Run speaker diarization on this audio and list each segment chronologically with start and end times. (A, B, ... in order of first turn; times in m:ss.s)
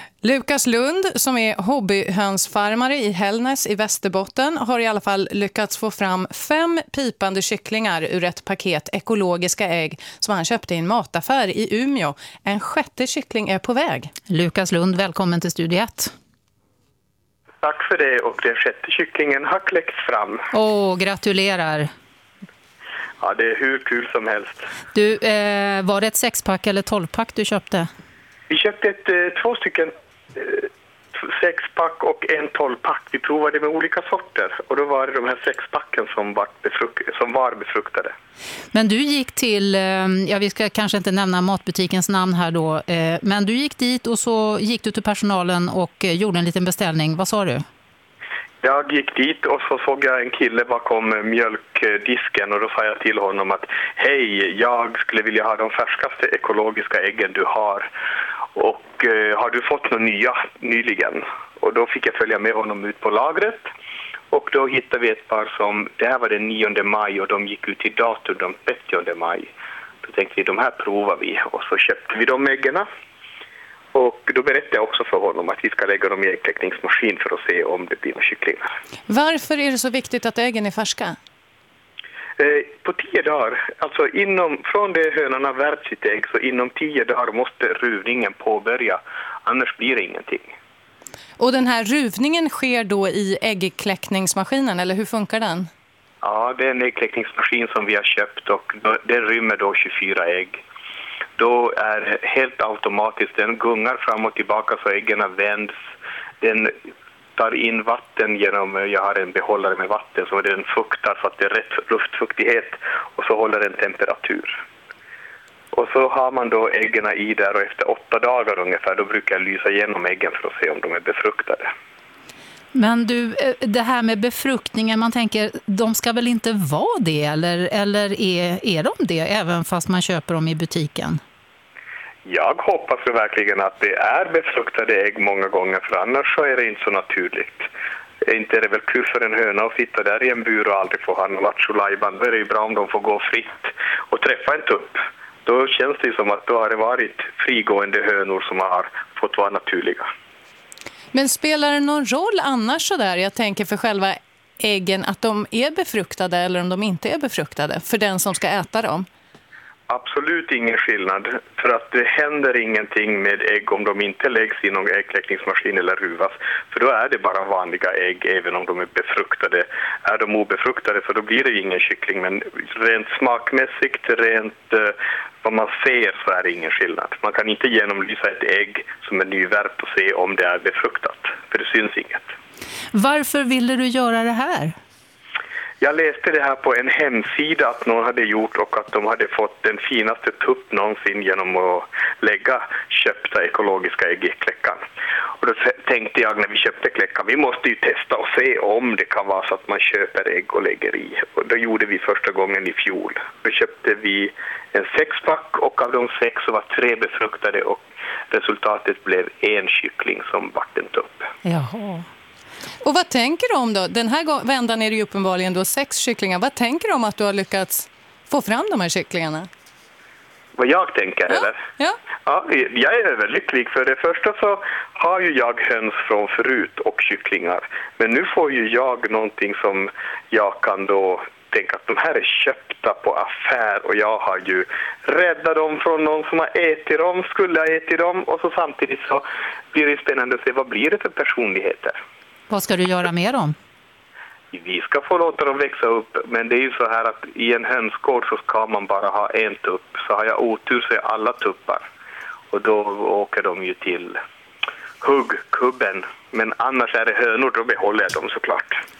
0:00.2-0:14.1 A
0:14.3-0:16.1 B
0:17.6-0:20.5 C
0:20.5-0:21.9 B
0:23.2-0:24.7 C
0:24.9-0:27.9 B
0:28.5-0:38.1 C
0:38.7-0:47.6 B
0:48.6-0:57.9 C
0:58.5-1:03.7 C
1:04.3-1:09.5 C
1:10.0-1:12.8 C
1:13.9-1:18.7 C
1:19.1-1:21.2 A
1:22.4-1:30.5 C
1:31.4-1:35.7 A
1:36.2-1:40.6 C
1:41.4-1:45.7 C
1:46.4-1:46.7 C
1:47.4-1:54.6 C
1:55.7-2:01.7 C
2:02.7-2:11.2 B
2:12.2-2:17.7 C
2:18.2-2:30.0 C
2:31.1-2:39.0 A
2:39.9-3:02.3 C
3:02.9-3:04.8 B
3:05.8-3:14.8 C
3:15.4-3:31.3 C
3:31.4-3:32.0 B
3:32.8-3:39.5 A
3:40.6-3:41.6 C
3:42.2-4:02.0 C
4:02.5-4:03.5 B
4:04.5-4:11.8 C
4:12.5-4:14.2 C
4:15.0-4:18.8 C